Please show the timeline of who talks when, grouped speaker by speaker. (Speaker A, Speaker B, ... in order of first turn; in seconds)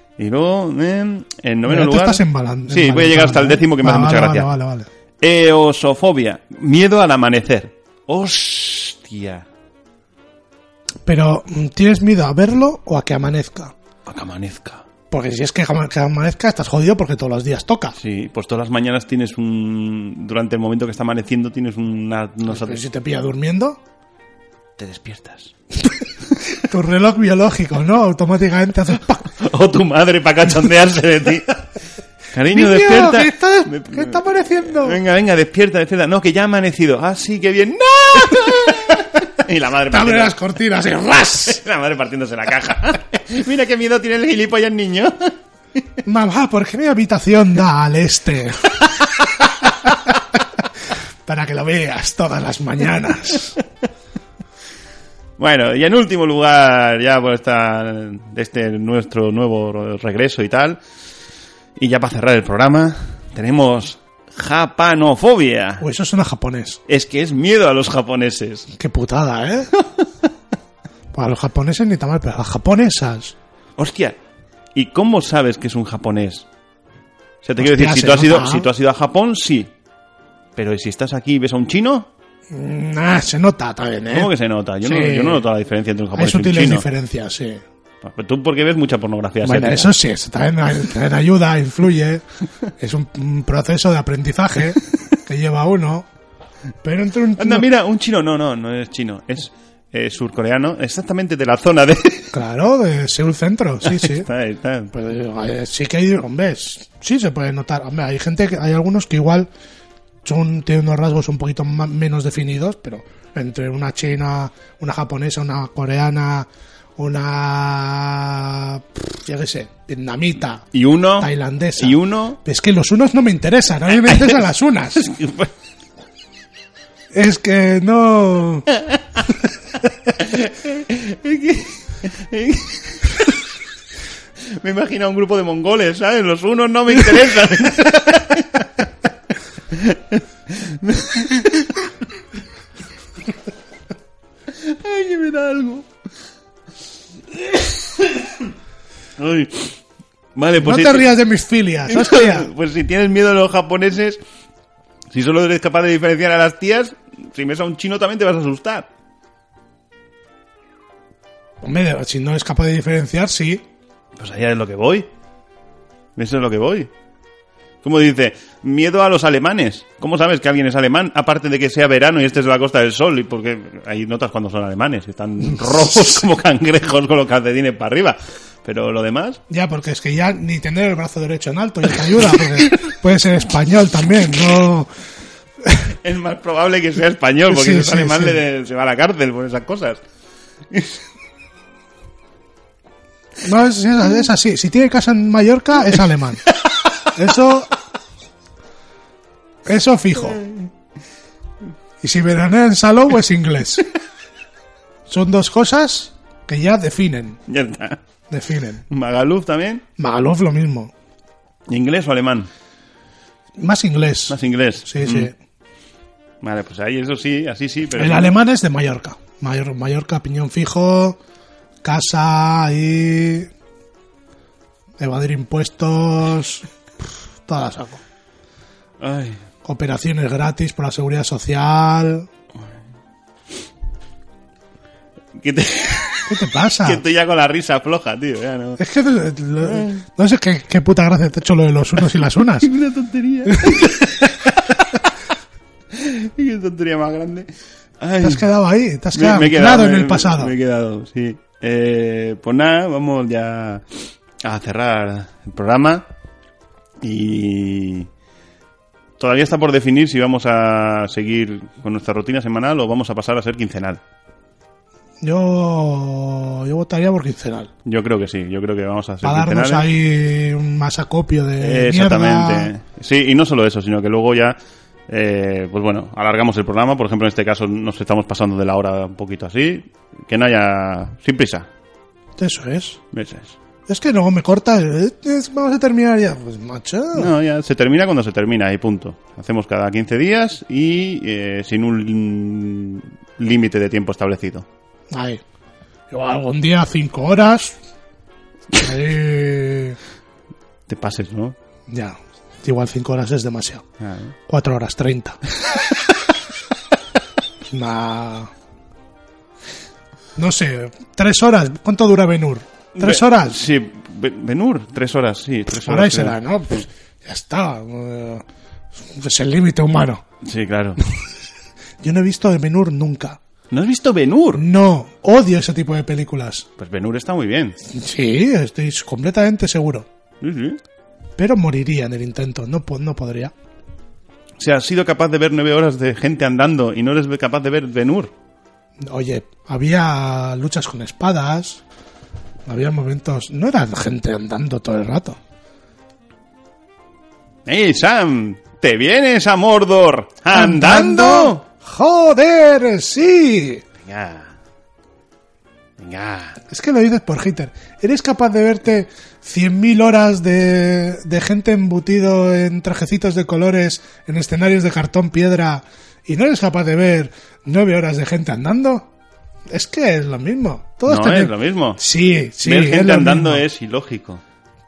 Speaker A: 0.2-4.5, 5.2-9.5, 14.1-14.9, 18.0-22.8, 24.8-25.5, 29.4-31.6, 32.3-40.4, 41.4-45.4, 55.4-60.8, 61.8-65.8, 66.9-68.7, 73.8-74.2, 74.8-76.5, 77.4-79.7, 80.6-82.1, 84.1-86.9, 88.0-89.9, 97.4-102.3, 103.8-104.9, 120.7-122.4, 124.0-124.4, 125.0-125.5, 128.8-129.2, 130.2-133.3, 134.6-138.7, 139.7-141.8, 144.6-145.9, 147.5-148.3, 149.2-149.8, 150.3-151.1, 151.9-154.2, 155.1-158.9, 164.2-165.1, 166.2-166.9, 167.8-179.4, 186.0-190.0, 190.7-191.0, 200.4-200.7, 207.5-208.0, 208.9-209.8, 211.7-212.5, 214.3-215.3, 216.4-218.3, 229.0-229.4, 235.4-238.8, 239.7-240.0, 242.6-245.0, 245.9-247.5, 248.0-248.4, 249.1-253.8, 254.4-256.1, 257.0-258.1, 259.2-264.0, 267.9-269.9, 271.6-274.6, 275.1-281.7, 283.1-283.6, 287.1-294.7, 300.9-301.6, 304.0-304.3, 313.0-316.4, 320.4-321.0, 323.7-324.6, 326.8-327.8, 330.4-330.8, 334.6-338.3, 347.7-351.6, 354.0-354.6, 356.0-356.6, 371.1-372.0, 372.6-374.4
Speaker B: 1.7-4.9, 11.1-13.8, 15.1-18.0, 22.5-23.8, 26.6-29.3, 32.5-35.0, 39.9-41.6, 46.0-48.9, 51.3-53.6, 65.8-66.8, 68.8-69.7, 71.1-73.3, 77.6-78.7, 82.5-85.5, 86.1-87.6, 89.4-92.2, 92.8-96.1, 96.8-97.7, 102.3-104.3, 104.9-109.5, 110.2-125.1, 127.1-128.7, 150.6-152.5, 161.6-163.7, 175.7-176.1, 179.5-184.9, 187.5-188.4, 193.4-196.4, 197.1-197.7, 199.7-200.4, 202.0-203.8, 205.1-207.4, 208.3-208.8, 210.0-210.9, 213.6-215.3, 218.0-221.2, 221.8-223.5, 225.0-226.7, 227.4-228.0, 229.6-232.3, 236.3-237.0, 238.8-242.7, 243.5-243.9, 248.2-250.5, 265.2-267.7, 269.2-272.7, 282.4-283.0, 283.9-287.3, 295.1-295.4, 296.1-297.8, 298.7-300.0, 301.9-303.9, 304.5-305.4, 307.7-308.5, 310.4-313.6, 315.7-318.4, 319.0-320.2, 322.0-323.4, 324.5-326.7, 327.9-330.1, 331.4-333.5, 339.0-341.8, 342.7-345.4, 350.5-353.8, 356.6-369.1, 369.7-373.6